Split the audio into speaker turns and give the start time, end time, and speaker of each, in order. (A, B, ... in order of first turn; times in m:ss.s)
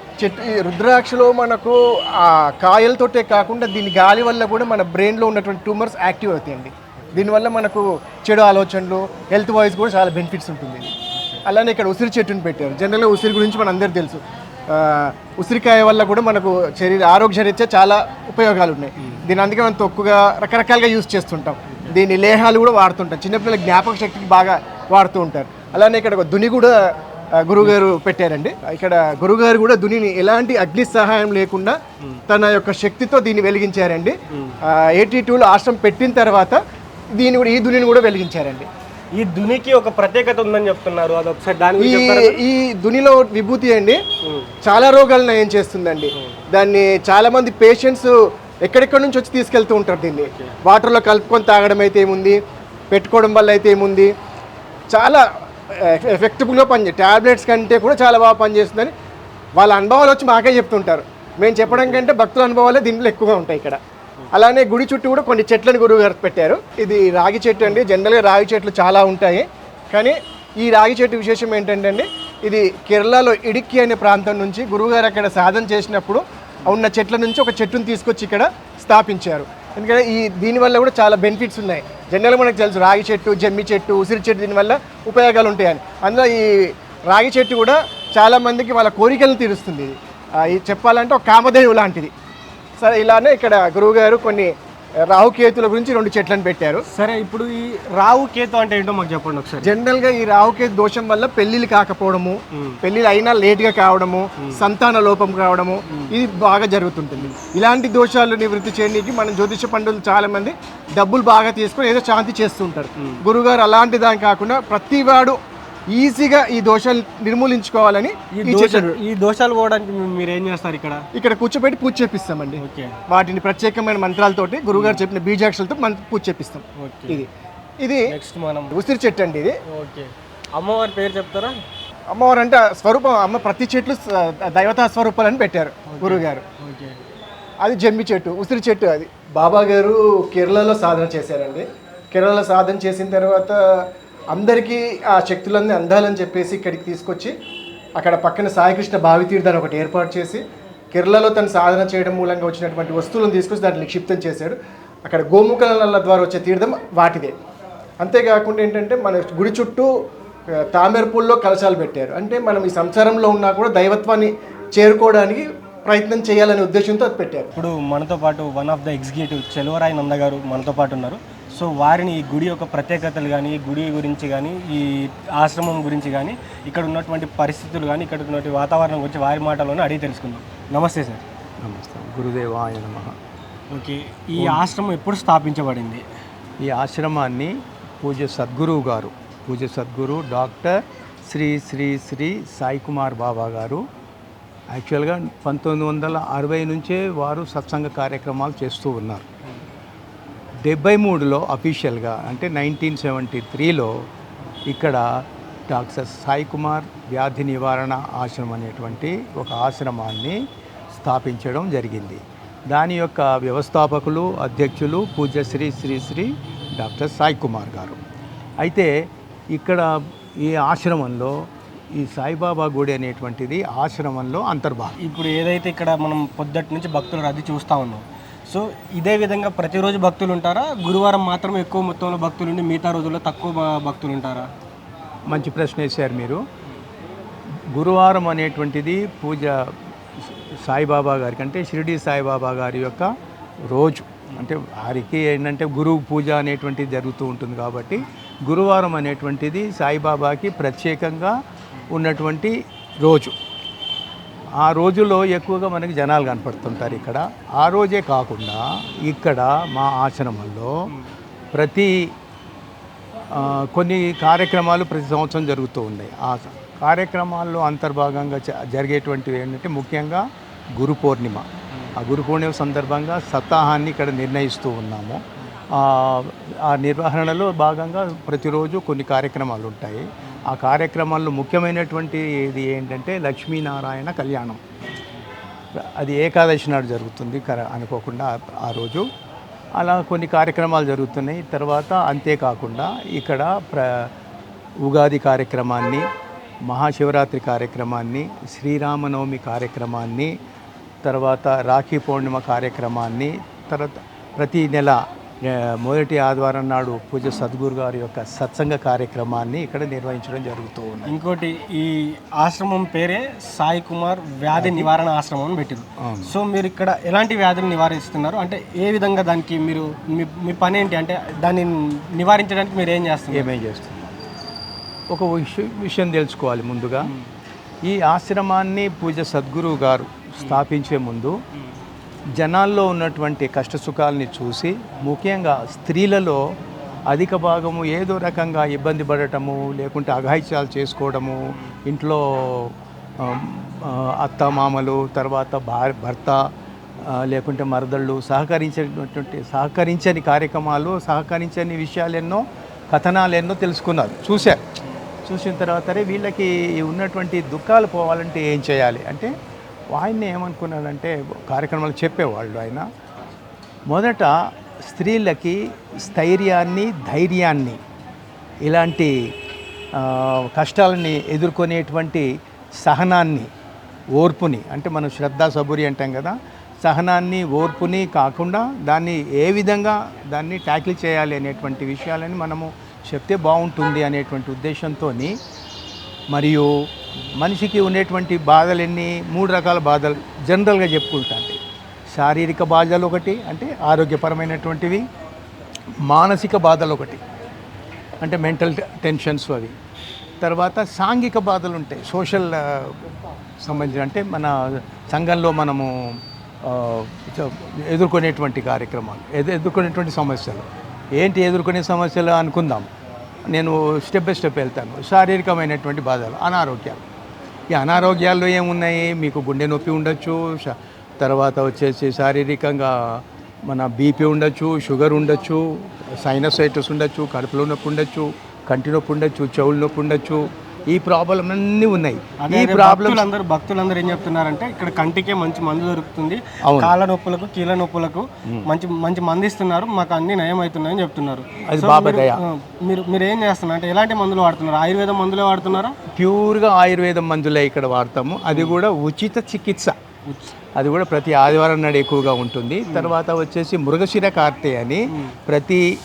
0:00.2-0:10.9 A
0:11.1-0:11.4 B
0:11.5-0:14.2 A
0:14.7-0:26.7 A
0:21.7-0:22.0 B
0:27.5-0:31.8 A
0:27.6-0:27.9 B
0:32.3-0:34.2 A
0:34.3-0:34.6 B
0:34.7-0:36.6 A
0:37.2-0:38.7 A
0:39.2-0:42.4 B
0:41.8-0:44.0 A
0:44.2-0:44.5 B
0:44.6-0:48.1 A
0:46.2-0:46.4 B
0:48.6-0:52.4 A
0:50.2-0:50.6 B
0:52.9-0:54.1 A
0:54.9-0:58.9 A
0:59.6-1:03.8 A
1:01.7-1:02.0 B
1:04.3-1:32.1 A
1:32.8-1:34.5 A
1:35.1-1:36.8 A
1:36.9-1:39.8 B
1:39.6-1:55.4 A
1:42.5-1:42.8 B
1:44.4-1:44.7 B
1:53.0-1:53.2 B
1:55.9-1:58.9 A
1:58.3-2:01.0 B
2:01.2-2:07.3 A
2:02.6-2:03.0 B
2:04.7-2:05.1 B
2:06.8-2:07.3 B
2:08.1-2:08.8 B
2:08.7-2:09.5 A
2:09.7-2:11.6 B
2:12.1-2:16.4 A
2:15.9-2:17.0 B
2:17.6-2:23.6 A
2:24.3-2:27.3 A
2:28.0-2:30.4 A
2:30.9-2:37.3 A
2:38.0-2:39.9 A
2:40.6-2:47.5 A
2:47.6-3:01.2 B
3:01.6-3:03.1 C
3:03.7-3:06.0 B
3:06.6-3:13.8 C
3:14.7-3:19.3 C
3:20.6-3:24.0 C
3:24.7-3:30.4 C
3:30.9-3:38.0 C
3:38.6-3:38.9 C
3:39.5-3:41.4 C
3:41.9-3:45.0 C
3:45.0-3:54.5 B
3:55.3-3:56.4 C
3:57.7-3:59.7 C
4:00.3-4:03.1 C
4:03.7-4:11.4 C
4:11.9-4:13.4 C
4:14.6-4:20.9 C
4:16.8-4:17.1 B
4:21.5-4:22.2 C
4:23.3-4:31.4 C
4:32.0-4:35.2 C
4:35.8-4:44.6 C
4:44.9-4:45.2 B
4:45.8-4:49.1 C
4:49.8-4:54.1 C
4:54.8-4:56.1 C
4:56.6-5:00.3 C
5:01.0-5:11.1 C
5:11.1-5:23.5 B
5:14.6-5:14.9 C
5:16.0-5:16.3 C
5:23.3-5:24.1 C
5:25.1-5:27.1 C
5:27.8-5:31.4 C
5:32.4-5:36.4 C
5:37.1-5:54.6 C
5:55.3-5:59.3 C
5:59.9-6:02.9 C
6:03.9-6:04.3 C
6:04.8-6:07.8 C
6:08.6-6:09.1 C
6:10.0-6:12.3 C
6:12.8-6:13.5 C
6:14.2-6:25.4 C
6:26.3-6:26.7 C
6:27.4-6:31.6 C
6:32.1-6:35.0 C
6:36.0-6:37.2 C
6:38.2-6:39.8 C
6:40.4-6:43.0 C
6:43.6-6:52.9 C
6:53.5-6:57.0 C
6:57.7-7:13.3 C
7:12.4-7:26.0 B
7:16.6-7:17.0 C
7:21.7-7:22.4 C
7:26.2-7:30.0 C
7:28.5-7:28.8 B
7:30.3-7:30.5 B
7:30.8-7:35.9 C